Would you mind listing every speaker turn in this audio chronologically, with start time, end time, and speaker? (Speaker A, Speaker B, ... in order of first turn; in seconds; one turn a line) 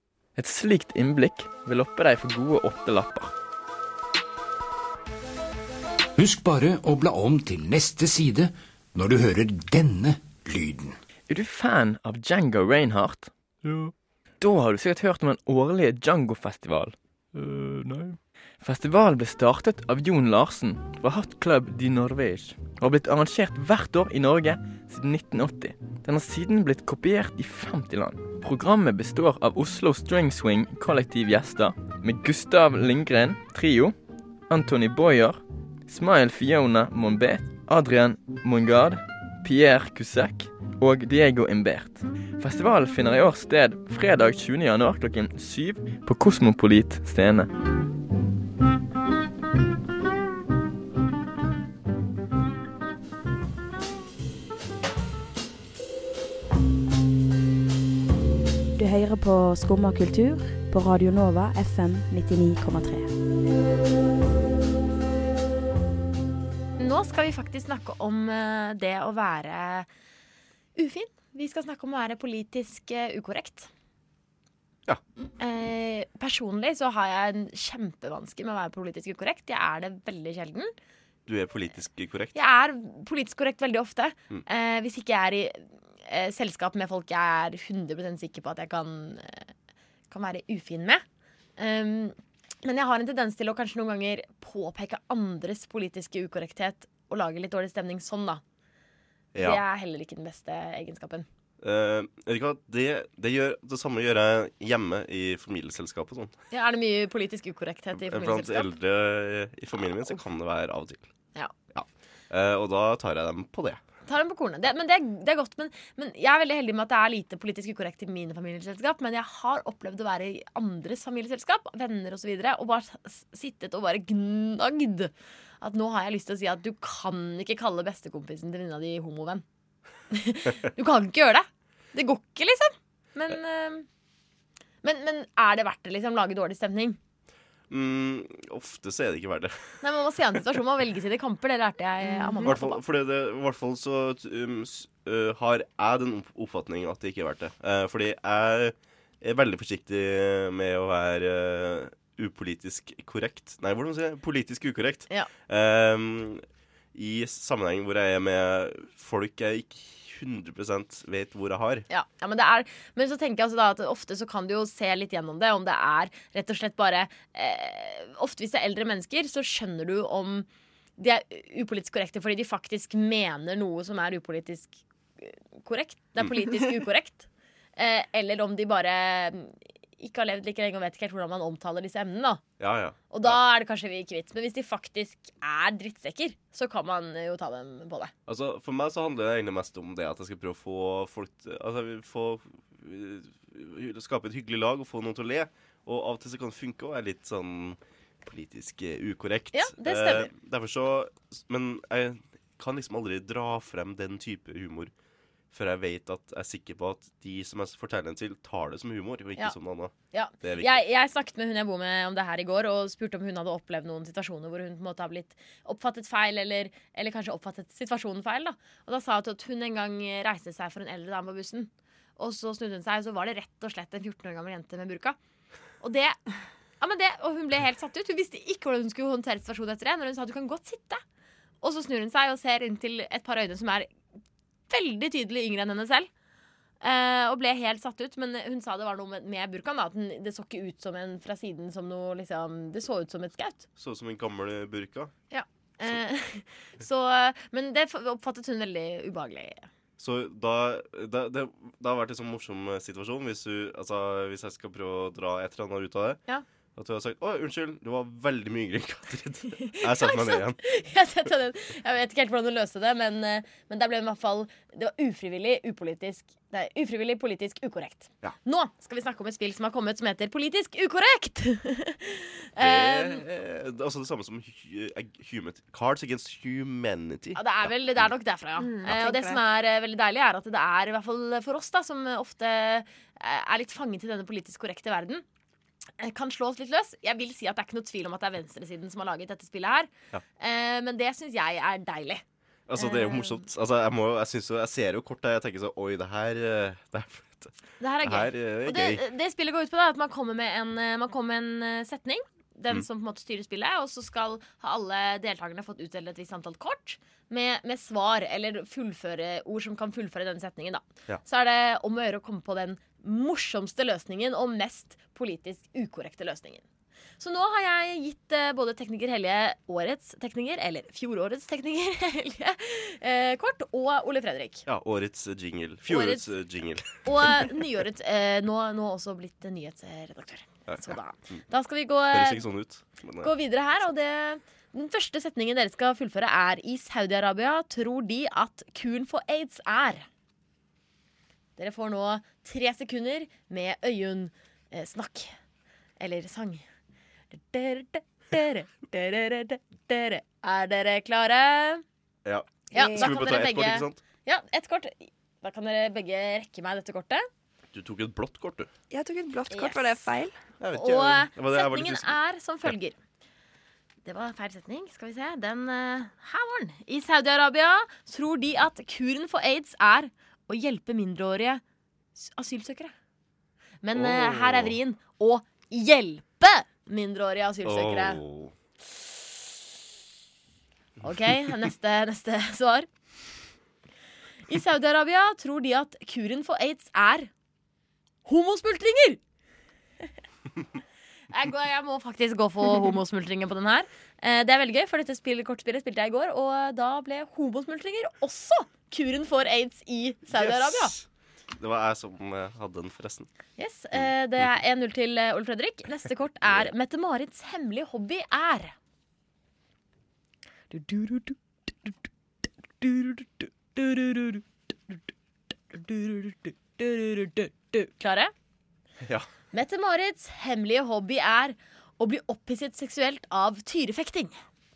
Speaker A: 0.3-3.3
Speaker B: 6.2-10.9
Speaker A: 11.3-33.9
Speaker A: 34.5-47.5
Speaker C: 58.8-63.1
Speaker D: 66.8-69.9
Speaker D: 70.8-73.7
Speaker D: 75.4-80.7
Speaker E: 81.3-82.3
Speaker D: 82.3-89.5
Speaker D: 90.1-91.0
Speaker D: 91.6-98.4
Speaker E: 99.3-99.6
Speaker D: 99.4-101.3
Speaker E: 101.6-106.4
Speaker D: 106.5-108.8
Speaker E: 108.0-111.1
Speaker E: 111.7-113.8
Speaker D: 114.0-129.4
Speaker D: 130.1-133.8
Speaker D: 134.8-137.0
Speaker E: 137.7-140.4
Speaker D: 139.8-142.8
Speaker F: 142.1-142.5
Speaker E: 142.4-161.9
Speaker D: 161.9-170.5
Speaker D: 171.0-182.5
Speaker E: 182.6-183.4
Speaker D: 183.1-188.1
Speaker E: 188.3-204.9
Speaker D: 199.5-200.3
Speaker E: 205.5-210.8
Speaker D: 210.1-225.2
Speaker D: 225.8-226.2
Speaker D: 226.8-231.0
Speaker D: 231.6-233.9
Speaker D: 234.7-236.1
Speaker D: 236.8-243.7
Speaker E: 243.8-245.1
Speaker D: 245.3-249.7
Speaker E: 250.0-256.2
Speaker E: 256.8-260.6
Speaker D: 259.5-273.2
Speaker E: 272.6-278.1
Speaker D: 277.4-285.2
Speaker F: 278.6-279.4
Speaker D: 286.0-292.2
Speaker E: 292.7-299.0
Speaker D: 292.8-293.4
Speaker D: 297.8-316.6
Speaker D: 317.2-324.6
Speaker E: 324.6-327.6
Speaker D: 325.9-326.3
Speaker D: 327.0-332.4
Speaker E: 330.7-331.4
Speaker E: 332.1-333.3
Speaker D: 333.2-340.1
Speaker D: 341.6-345.4
Speaker D: 346.0-346.6
Speaker D: 347.3-351.8
Speaker E: 352.2-354.0
Speaker F: 352.7-353.2
Speaker D: 352.7-357.3
Speaker E: 357.7-358.7
Speaker F: 358.9-360.3
Speaker D: 359.5-359.9
Speaker E: 360.6-362.7
Speaker D: 360.7-363.0
Speaker D: 364.0-371.6
Speaker D: 372.1-372.9
Speaker D: 373.8-378.2
Speaker E: 373.9-374.8
Speaker E: 377.6-378.5
Speaker D: 381.0-382.9
Speaker D: 384.5-387.3
Speaker D: 388.2-389.2
Speaker D: 391.3-400.9
Speaker E: 400.3-403.3
Speaker D: 403.6-408.7
Speaker E: 406.4-406.7
Speaker D: 410.7-411.4
Speaker D: 412.8-414.4
Speaker D: 415.7-418.3
Speaker D: 419.5-424.4